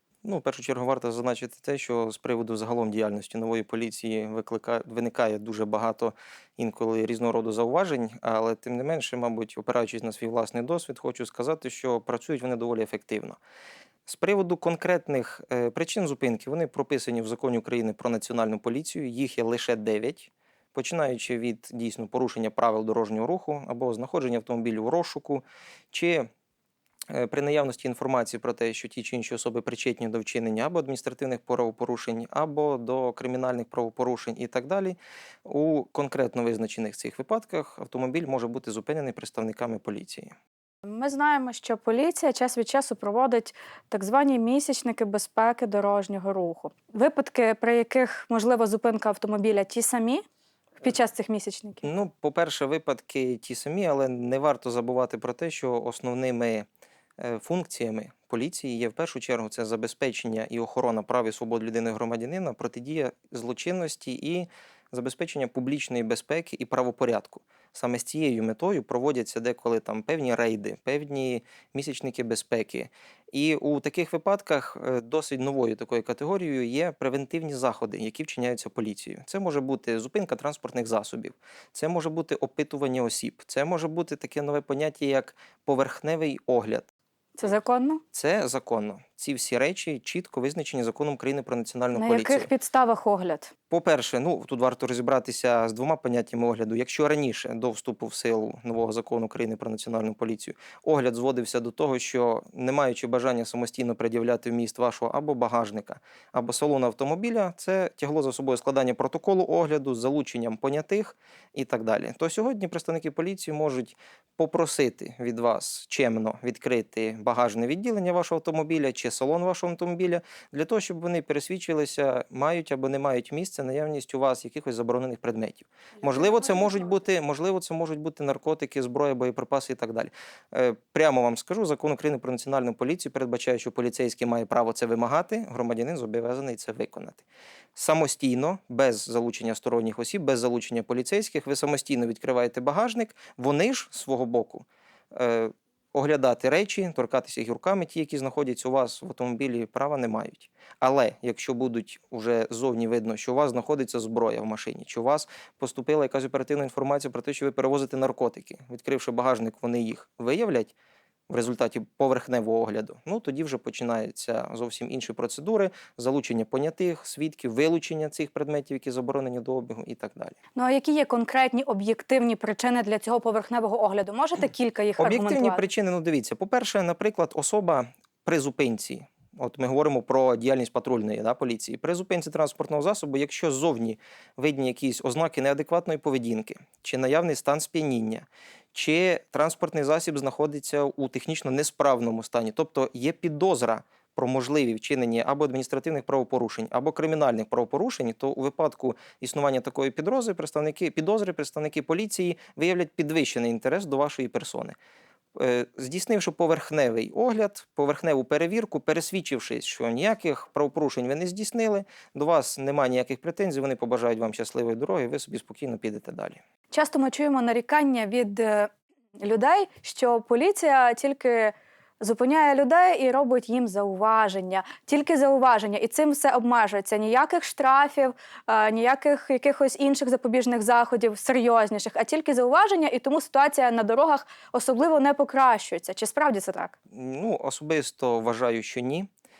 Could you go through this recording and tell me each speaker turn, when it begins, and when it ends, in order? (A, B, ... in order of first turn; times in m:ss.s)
0:00.2-0:13.4 A
0:14.0-0:26.3 A
0:27.1-0:40.3 A
0:40.9-0:50.2 B
0:50.8-0:51.9 B
0:51.8-0:56.7 A
0:57.2-1:26.9 A
1:27.4-1:28.0 B
1:28.1-1:32.5 A
1:31.9-1:33.5 B
1:33.7-2:40.7 A
2:41.3-2:50.3 A
2:50.6-2:55.6 B
2:55.0-3:24.8 A
3:25.3-3:36.4 A
3:36.7-3:56.7 B
3:56.9-3:59.1 A